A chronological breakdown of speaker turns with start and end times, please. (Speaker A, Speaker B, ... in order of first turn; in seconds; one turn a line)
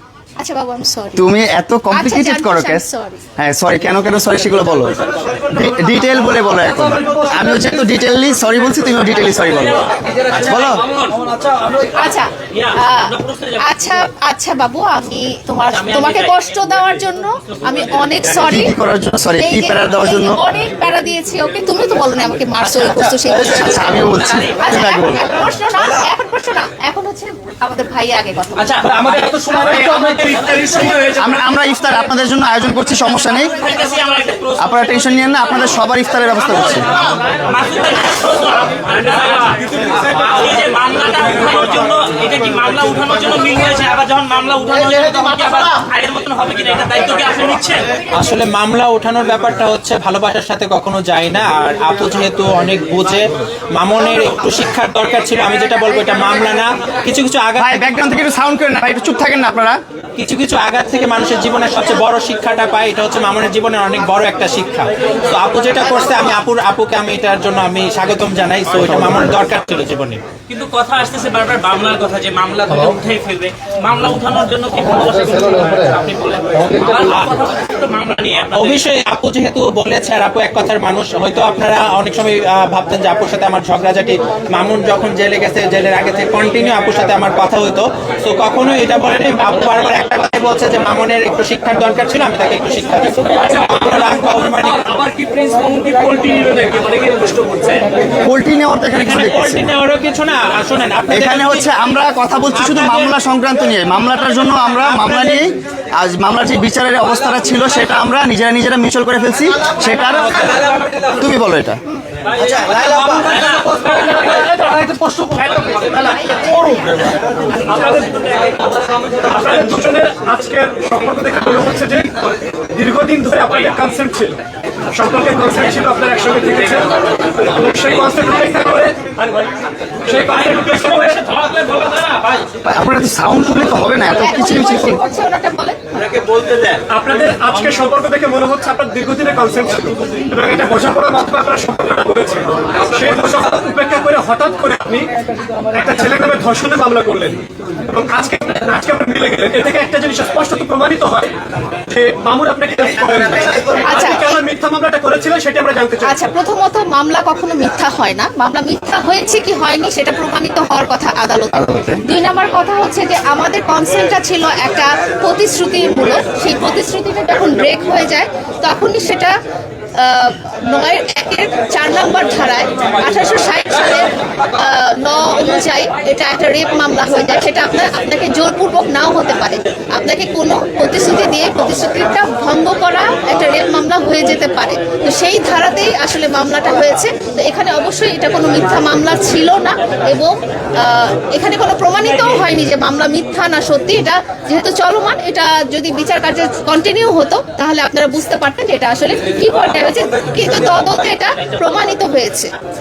Speaker A: 0.4-1.3
Speaker B: 1.2-2.9
Speaker A: 1.9-3.2
Speaker B: 3.4-10.9
Speaker C: 9.8-11.8
Speaker A: 11.9-18.7
Speaker C: 12.4-13.7
Speaker C: 15.8-16.3
Speaker B: 18.3-20.4
Speaker A: 19.4-23.9
Speaker B: 22.6-25.3
Speaker A: 24.6-28.8
Speaker C: 28.6-31.3
Speaker D: 28.8-30.8
Speaker B: 31.1-33.6
Speaker C: 33.4-35.2
Speaker B: 34.6-36.9
Speaker C: 36.7-48.0
Speaker D: 39.5-40.5
Speaker E: 48.1-58.0
Speaker B: 57.6-59.8
Speaker E: 60.2-70.2
Speaker C: 70.5-78.8
Speaker E: 77.0-77.4
Speaker E: 78.5-94.9
Speaker C: 94.8-97.9
Speaker B: 98.2-99.7
Speaker E: 99.0-101.7
Speaker B: 101.1-111.8
Speaker E: 102.7-103.0
Speaker E: 110.2-110.6
Speaker C: 112.3-113.8
Speaker D: 112.8-131.3
Speaker C: 130.8-132.5
Speaker B: 132.7-135.0
Speaker A: 134.2-135.8
Speaker D: 136.9-145.1
Speaker D: 145.7-151.3
Speaker D: 151.9-156.2
Speaker B: 153.0-154.1
Speaker A: 153.8-154.4
Speaker A: 156.0-169.3
Speaker B: 161.5-162.0
Speaker A: 169.9-202.5